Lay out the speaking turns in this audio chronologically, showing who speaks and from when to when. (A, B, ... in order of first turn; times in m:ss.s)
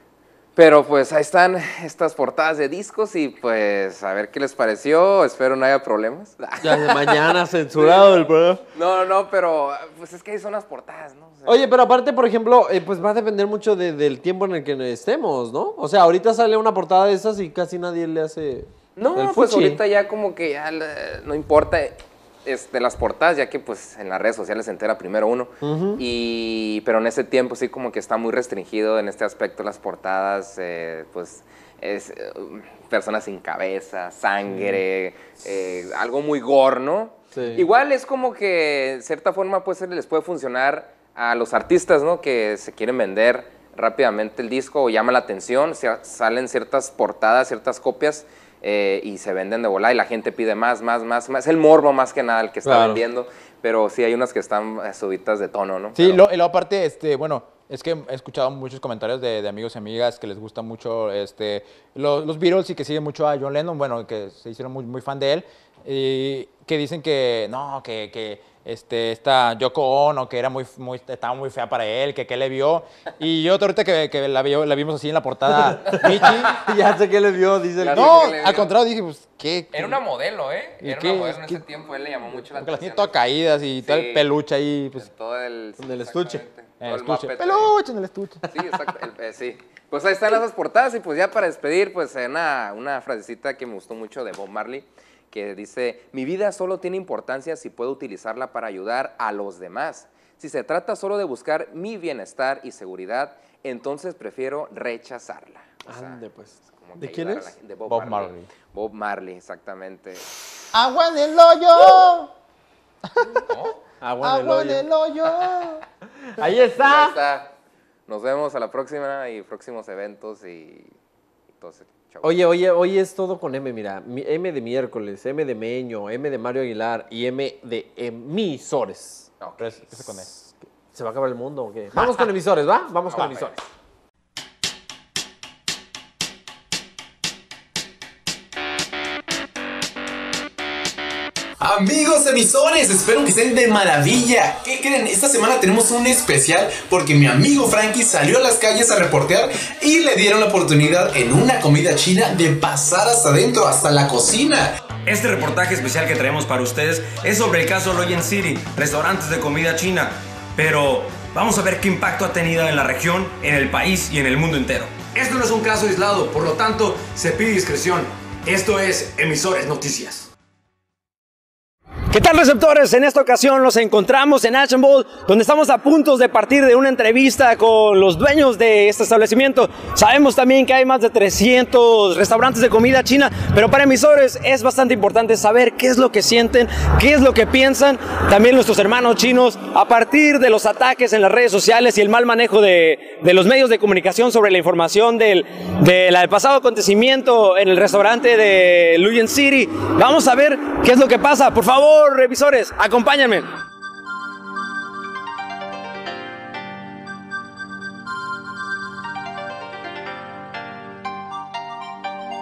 0:00.6-0:07.0 A
0:06.6-0:08.6 B
0:07.7-0:11.6 A
0:11.4-0:19.8 B
0:19.0-0:56.2 A
0:25.6-0:26.0 B
0:34.5-0:34.8 B
0:37.3-0:37.7 B
0:52.6-0:53.0 B
0:55.9-1:16.5 C
1:15.5-1:18.3 B
1:17.8-1:18.7 A
1:17.9-1:20.0 C
1:19.7-1:23.2 A
1:20.8-1:21.6 C
1:22.5-1:25.0 C
1:23.8-1:24.2 A
1:25.0-1:27.7 A
1:25.8-1:26.4 B
1:26.8-1:28.4 C
1:28.5-1:46.2 A
1:45.8-1:47.5 B
1:46.7-1:50.2 A
1:47.9-1:48.5 C
1:50.7-1:52.3 C
1:53.2-1:53.4 C
1:53.5-1:53.7 A
1:54.0-1:54.9 B
1:54.2-1:55.8 C
1:56.3-1:57.2 B
1:56.6-1:57.5 A
1:58.1-2:00.9 A
2:01.6-2:02.4 A
2:02.2-2:09.3 B
2:09.4-2:09.7 A
2:09.6-2:10.3 C
2:10.0-2:13.6 B
2:13.0-2:13.6 A
2:21.6-2:34.7 D
2:35.0-2:50.3 E
2:52.1-3:23.5 F